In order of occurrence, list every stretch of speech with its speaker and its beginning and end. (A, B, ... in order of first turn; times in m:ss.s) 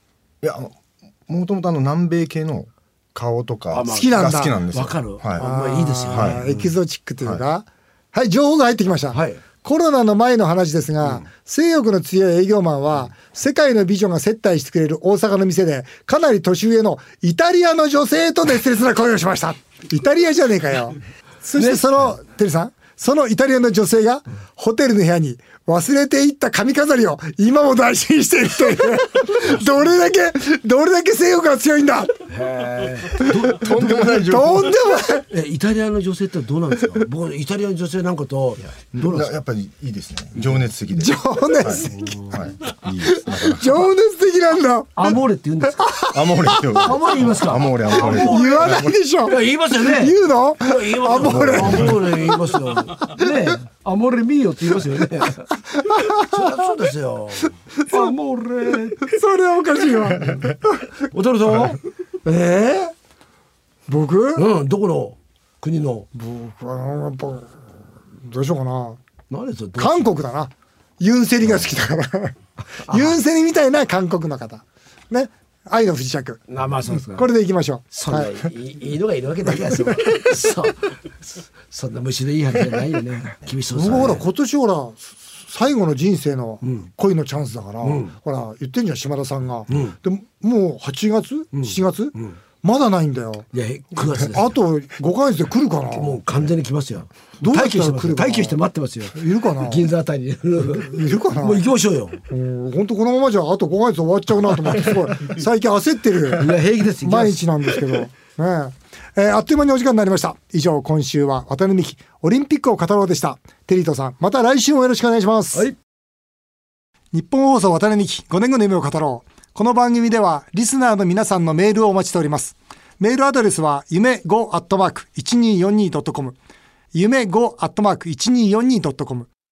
0:00.4-0:05.5 A
0:03.7-0:06.5 B
0:03.9-0:04.6 C
0:05.4-0:32.1 C
0:06.1-0:06.6 A
0:09.1-0:09.4 B
0:32.3-0:34.2 B
0:33.5-0:34.8 A
0:34.2-0:35.3 C
0:35.3-0:39.3 B
0:38.9-0:43.8 A
0:40.9-0:42.2 C
0:41.9-0:42.4 B
0:43.1-0:45.2 C
0:45.0-0:46.0 B
0:45.8-0:46.9 C
0:46.1-0:48.9 A
0:46.8-0:55.5 B
0:47.9-0:52.1 C
0:51.2-0:52.0 A
0:55.7-0:56.5 C
0:56.1-0:59.2 B
0:57.8-0:58.1 C
0:59.0-1:00.7 C
1:01.1-1:02.9 B
1:03.9-1:04.4 C
1:04.4-1:06.1 B
1:06.1-1:07.5 C
1:08.2-1:09.0 C
1:09.3-1:10.1 B
1:09.8-1:18.5 C
1:12.9-1:13.2 B
1:16.5-1:17.3 B
1:17.9-1:24.2 B
1:23.7-1:36.2 C
1:27.8-1:28.1 B
1:29.7-1:30.0 B
1:31.5-1:32.4 B
1:33.5-1:34.5 B
1:35.9-1:42.2 B
1:37.4-1:38.6 C
1:39.1-1:39.9 C
1:40.8-1:41.6 C
1:42.3-1:46.5 C
1:46.3-1:48.0 B
1:47.0-1:55.7 C
1:57.1-2:06.4 C
2:06.9-2:09.3 C